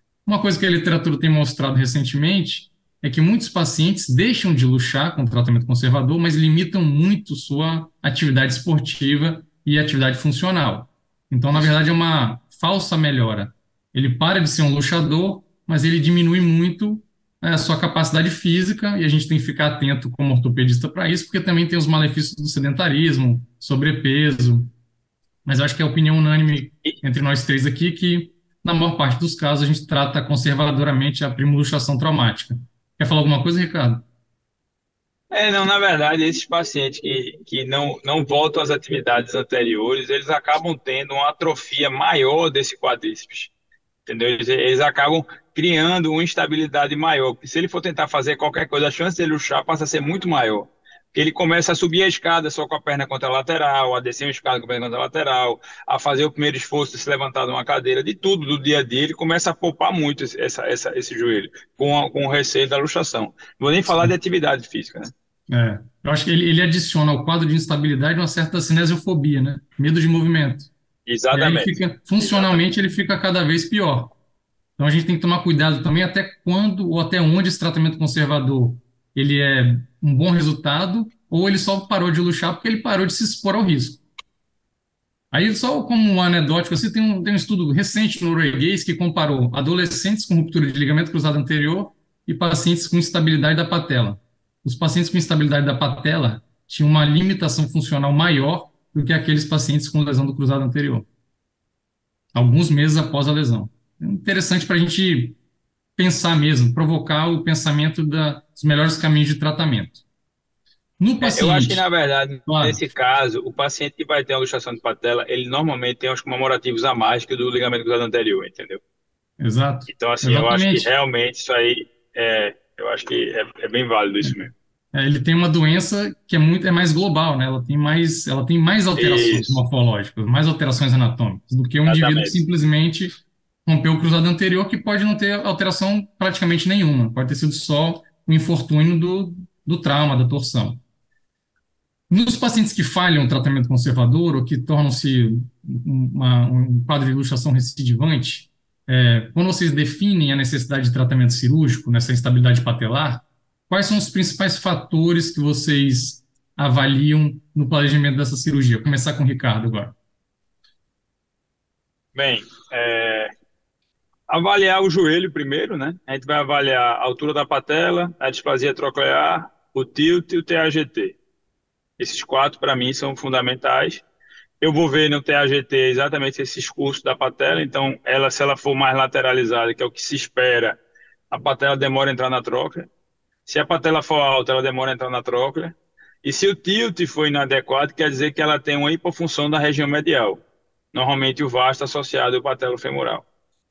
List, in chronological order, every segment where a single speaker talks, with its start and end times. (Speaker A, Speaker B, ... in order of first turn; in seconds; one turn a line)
Speaker A: 0.2-24.7
Speaker A: 25.4-34.0
Speaker B: 35.3-43.5
Speaker B: 44.1-65.1
Speaker A: 65.5-70.7
Speaker B: 71.1-72.6
Speaker A: 71.3-74.1
Speaker A: 74.8-84.0
Speaker A: 85.3-101.1
Speaker A: 102.3-105.4
Speaker A: 106.0-110.0
Speaker A: 111.0-111.9
Speaker B: 111.2-118.8
Speaker A: 112.5-112.8
Speaker A: 119.4-120.9
Speaker B: 119.9-124.5
Speaker A: 124.9-133.1
Speaker B: 129.0-129.6
Speaker B: 131.9-132.4
Speaker A: 133.7-140.8
Speaker A: 142.1-159.9
Speaker B: 162.1-163.3
Speaker B: 164.3-171.2
Speaker B: 172.0-174.0
Speaker B: 174.6-180.8
Speaker B: 181.3-182.9
Speaker B: 183.4-193.2